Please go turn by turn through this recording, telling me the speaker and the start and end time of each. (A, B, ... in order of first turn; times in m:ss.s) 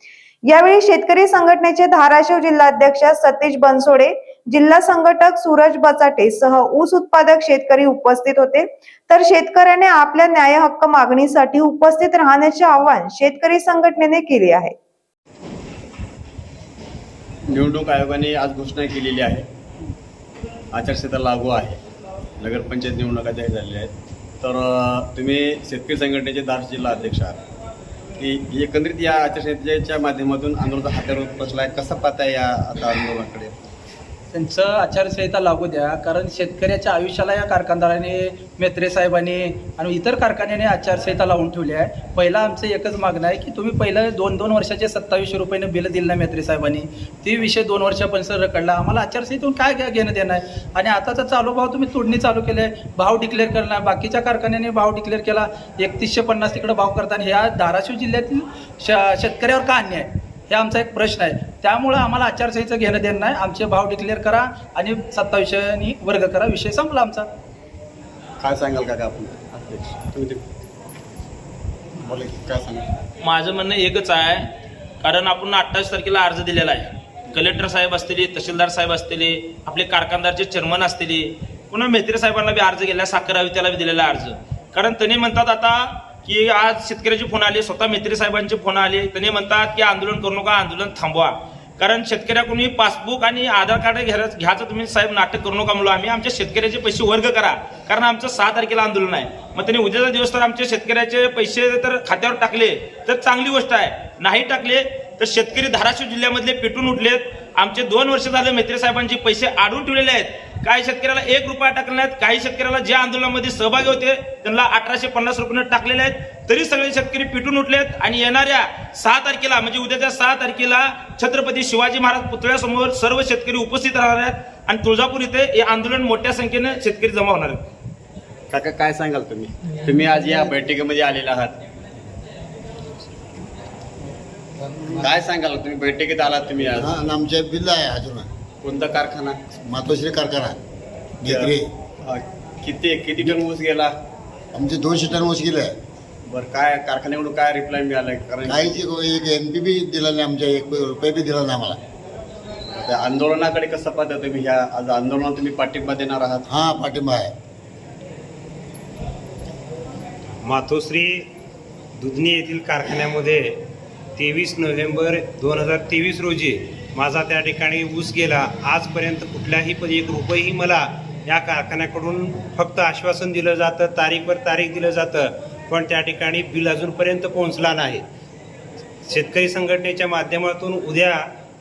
0:00.5-0:14.8 A
0:17.5-0:19.5 B
0:20.7-0:21.8 B
0:22.4-0:27.4 B
0:28.2-0:33.7 B
0:34.3-1:07.3 C
1:08.4-1:10.4 B
1:12.0-1:12.9 B
1:13.2-1:14.5 D
1:15.0-2:07.6 D
2:08.5-2:11.5 B
2:14.9-2:17.1 B
2:16.8-2:18.3 E
2:18.6-2:19.5 B
2:19.6-2:20.6 E
2:21.2-2:23.9 B
2:21.3-2:21.7 E
2:24.5-2:25.8 E
2:26.3-2:28.9 B
2:28.5-2:31.8 E
2:32.8-2:36.6 B
2:36.5-2:37.3 E
2:40.4-2:41.3 F
2:42.0-2:43.6 F
2:44.2-2:58.0 F
2:59.1-3:01.2 F